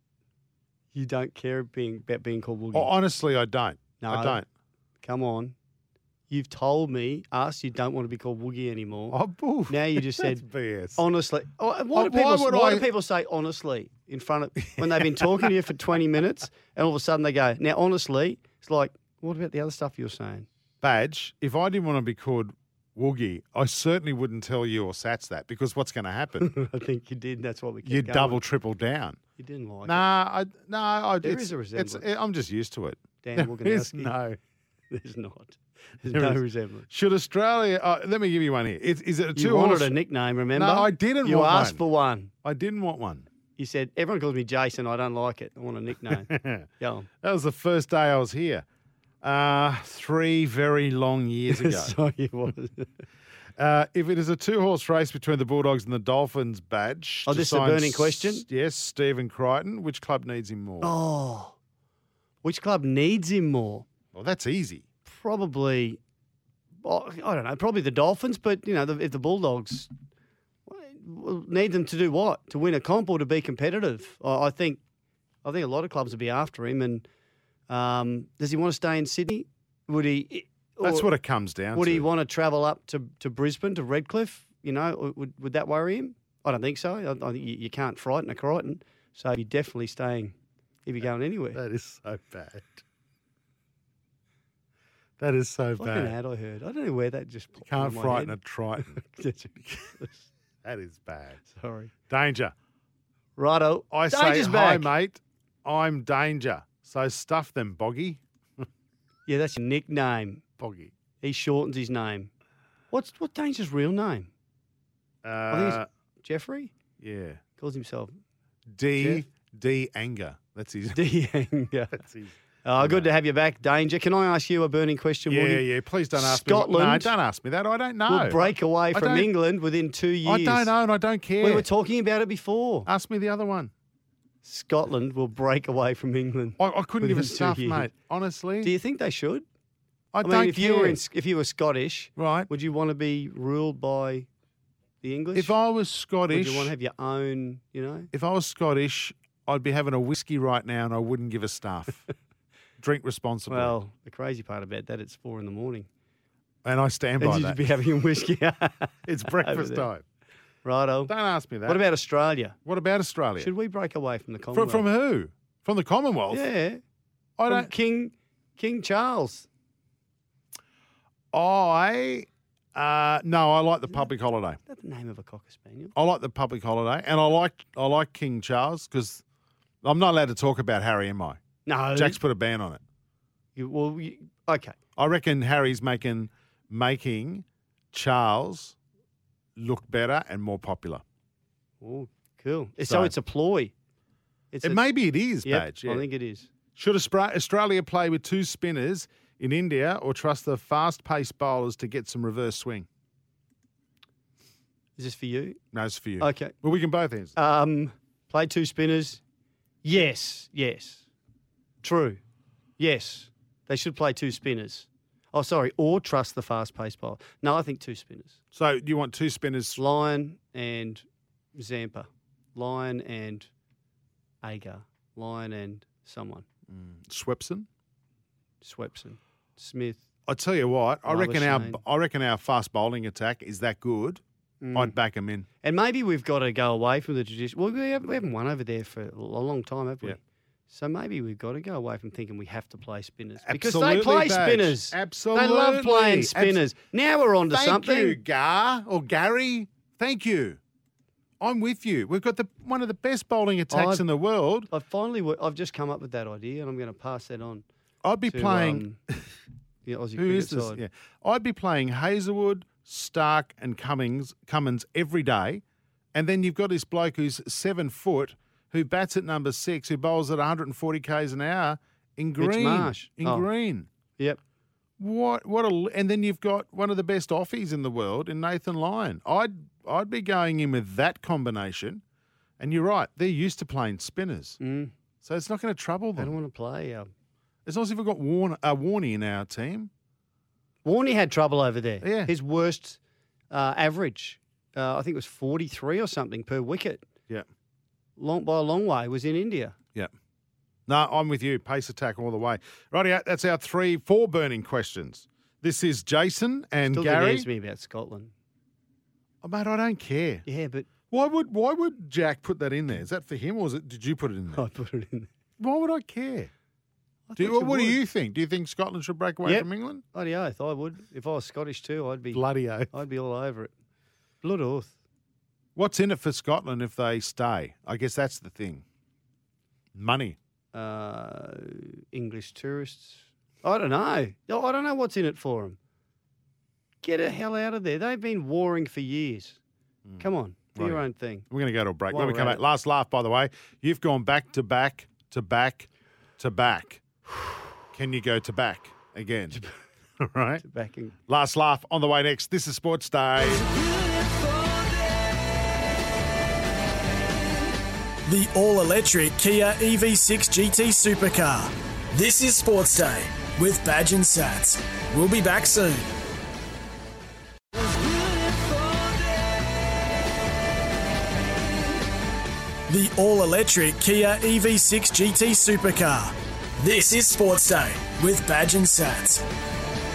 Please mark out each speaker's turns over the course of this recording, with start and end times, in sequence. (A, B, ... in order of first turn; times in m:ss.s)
0:00.9-0:02.9 A
0:02.7-0:04.5 B
0:04.0-0:04.4 A
0:05.0-0:05.6 A
0:06.3-0:10.4 A
0:09.1-0:11.0 B
0:11.0-0:20.5 A
0:11.9-0:12.9 B
0:14.7-0:15.5 B
0:20.8-0:26.5 B
0:26.4-0:28.4 A
0:27.8-0:29.2 B
0:29.4-0:30.1 A
0:29.8-0:34.4 B
0:31.2-0:32.0 A
0:33.2-0:34.1 A
0:34.9-0:36.9 A
0:36.1-0:39.9 B
0:39.3-0:42.3 A
0:40.6-0:41.8 B
0:42.4-0:43.3 B
0:43.6-0:47.1 A
0:46.1-0:46.7 B
0:47.2-0:48.6 B
0:49.2-0:52.0 B
0:51.5-0:52.9 A
0:53.6-1:00.9 B
0:57.3-0:58.4 A
1:00.8-1:01.6 A
1:02.4-1:03.9 A
1:04.1-1:04.8 B
1:05.1-1:06.0 A
1:06.8-1:09.9 A
1:10.7-1:14.8 A
1:15.4-1:17.0 A
1:17.7-1:21.1 A
1:20.8-1:22.1 B
1:21.7-1:30.4 A
1:30.9-1:31.6 A
1:31.5-1:32.8 B
1:35.2-1:36.2 B
1:35.8-1:40.3 A
1:37.6-1:39.0 B
1:40.6-1:41.4 B
1:41.5-1:41.9 A
1:42.1-1:42.5 B
1:43.4-1:44.9 A
1:43.9-1:48.6 B
1:49.3-1:50.4 A
1:50.6-1:50.9 B
1:51.2-1:52.3 A
1:52.9-1:54.3 A
1:55.2-1:55.9 B
1:55.5-1:56.7 A
1:57.0-1:57.4 B
1:57.6-1:58.2 A
1:58.7-2:01.0 B
1:59.0-1:59.2 A
2:00.9-2:02.0 A
2:02.0-2:03.1 B
2:02.6-2:07.1 A
2:05.3-2:09.3 B
2:08.1-2:10.7 A
2:10.2-2:11.7 B
2:11.4-2:12.9 A
2:12.9-2:13.7 B
2:14.4-2:17.9 A
2:16.6-2:18.7 B
2:18.6-2:19.4 A
2:20.1-2:21.0 B
2:20.2-2:24.3 A
2:22.2-2:22.5 B
2:25.0-2:25.5 A
2:25.4-2:26.7 B
2:26.3-2:28.1 A
2:28.1-2:32.1 B
2:32.8-2:33.8 B
2:33.5-2:35.9 A
2:36.6-2:37.6 B
2:37.2-2:39.9 A
2:39.1-2:40.0 B
2:40.6-2:41.1 A
2:41.1-2:41.8 B
2:41.6-2:42.6 A
2:42.6-2:43.5 B
2:43.4-2:44.9 A
2:44.5-2:46.5 B
2:46.3-2:46.8 A
2:47.4-2:47.7 B
2:47.5-2:49.5 A
2:51.3-2:54.6 B
2:54.7-2:55.9 A
2:56.0-2:59.2 B
2:59.8-3:01.4 B
3:01.7-3:02.2 A
3:02.0-3:02.8 B
3:03.6-3:04.8 A
3:05.0-3:08.8 B
3:09.6-3:11.0 B
3:11.8-3:13.7 A
3:12.8-3:13.1 B
3:14.5-3:14.9 A
3:14.6-3:16.0 B
3:15.4-3:16.5 A
3:16.8-3:22.9 B
3:25.0-3:25.6 A
3:25.7-3:27.4 B
3:26.2-3:26.5 A
3:27.4-3:29.2 A
3:29.8-3:31.0 A
3:31.8-3:32.2 A
3:32.8-3:38.4 A
3:38.5-3:39.8 B
3:39.8-3:43.5 A
3:44.4-3:46.4 A
3:46.7-3:47.7 B
3:48.6-3:50.0 A
3:50.3-3:54.2 B
3:51.1-3:51.8 A
3:54.6-3:55.0 A
3:54.7-3:55.5 B
3:55.6-4:08.2 A
4:03.4-4:06.6 B
4:07.5-4:10.6 B
4:11.4-4:14.7 B
4:13.7-4:14.0 A
4:14.7-4:17.6 A
4:18.0-4:19.2 B
4:18.3-4:19.0 A
4:19.8-4:20.8 A
4:20.2-4:25.6 B
4:26.1-4:33.9 B
4:32.4-4:33.5 A
4:35.0-4:42.0 B
4:42.6-4:44.6 B
4:44.6-4:44.9 A
4:45.2-4:46.4 B
4:46.2-4:47.1 A
4:47.7-4:49.9 B
4:50.8-4:53.0 A
4:52.0-4:52.3 B
4:53.5-4:57.0 A
4:58.2-4:59.8 A
5:00.9-5:07.5 B
5:06.8-5:08.3 A
5:09.4-5:10.4 B
5:10.5-5:10.9 A
5:11.1-5:14.6 B
5:14.5-5:15.3 A
5:15.6-5:16.5 B
5:17.3-5:18.0 A
5:17.4-5:20.0 B
5:19.4-5:23.7 A
5:22.3-5:22.9 B
5:24.4-5:25.0 A
5:25.8-5:28.8 B
5:30.0-5:30.4 B
5:30.7-5:35.8 A
5:37.0-5:39.6 A
5:40.1-5:47.0 B
5:40.2-5:41.5 A
5:42.1-5:42.6 A
5:47.9-5:49.6 B
5:50.2-5:50.6 B
5:50.6-5:51.1 A
5:51.3-5:53.6 B
5:58.3-6:06.1 C
6:12.9-6:19.4 C